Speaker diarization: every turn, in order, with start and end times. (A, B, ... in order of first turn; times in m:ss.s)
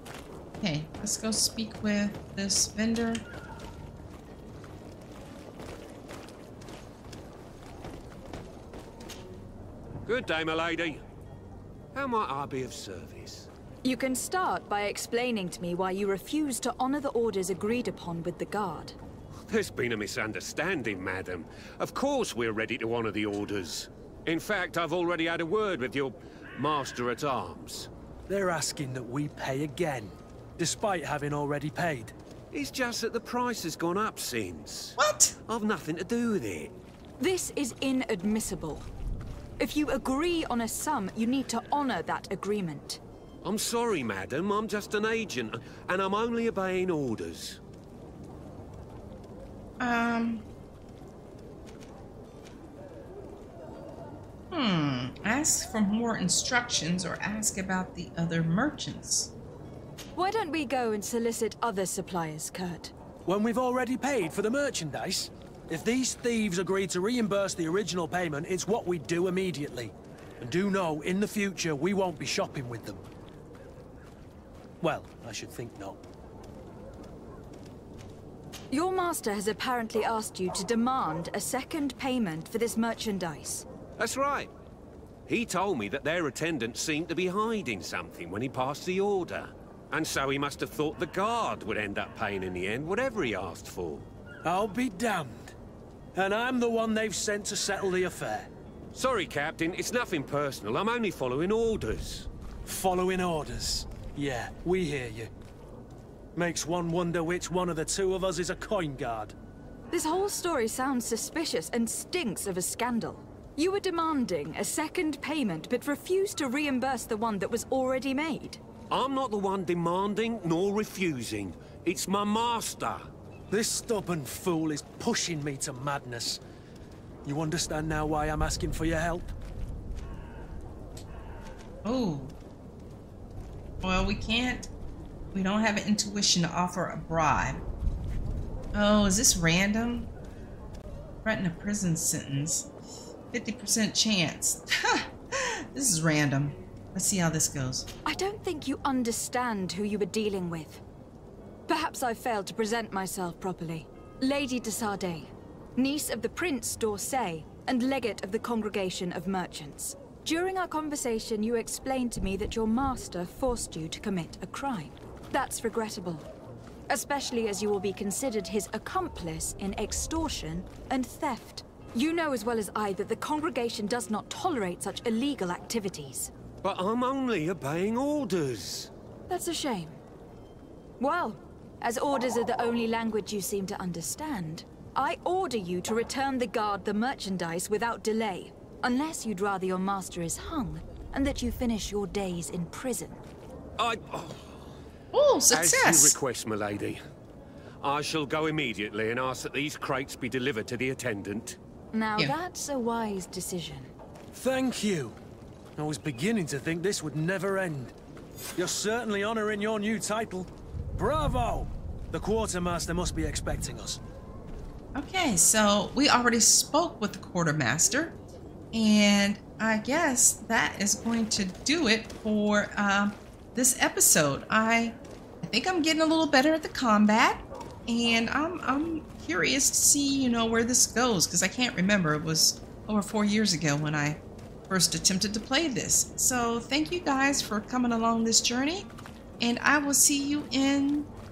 0:00.6-0:03.2 A
0:10.1-0:11.0 B
0:11.9-0:13.5 B
0:13.8-0:19.0 C
0:19.5-0:27.9 B
0:28.3-0:32.2 D
0:32.5-0:35.0 B
0:35.0-0:35.4 A
0:35.5-0:36.8 B
0:37.2-0:38.9 C
0:39.6-0:43.0 C
0:43.4-0:47.6 B
0:49.8-0:50.4 A
0:54.5-0:59.3 A
1:00.2-1:02.9 C
1:03.3-1:13.0 D
1:14.8-1:16.0 D
1:18.7-1:23.7 C
1:24.0-1:24.5 B
1:25.3-1:34.1 B
1:34.4-1:35.6 D
1:36.2-1:38.5 D
1:38.9-1:42.3 B
1:42.7-1:45.3 D
1:46.4-1:49.4 D
1:49.9-1:58.6 C
1:58.9-2:03.1 B
2:03.5-2:06.4 D
2:07.2-2:09.3 D
2:11.8-2:12.3 A
2:13.8-2:14.7 A
2:15.3-2:17.6 A
2:18.7-2:20.1 A
2:21.2-2:22.7 A
2:23.3-2:27.9 A
2:28.0-2:30.8 C
2:31.7-2:46.3 C
2:46.9-2:56.3 C
2:56.6-2:58.9 B
2:59.3-3:00.0 C
3:01.0-3:13.2 C
3:13.8-3:14.6 B
3:15.1-3:16.2 A
3:15.5-3:17.0 B
3:17.8-3:21.6 B
3:21.9-3:23.9 C
3:24.3-3:25.2 D
3:25.8-3:27.9 D
3:28.6-3:34.0 D
3:35.0-3:38.2 A
3:38.7-3:58.9 A
3:59.4-4:01.1 A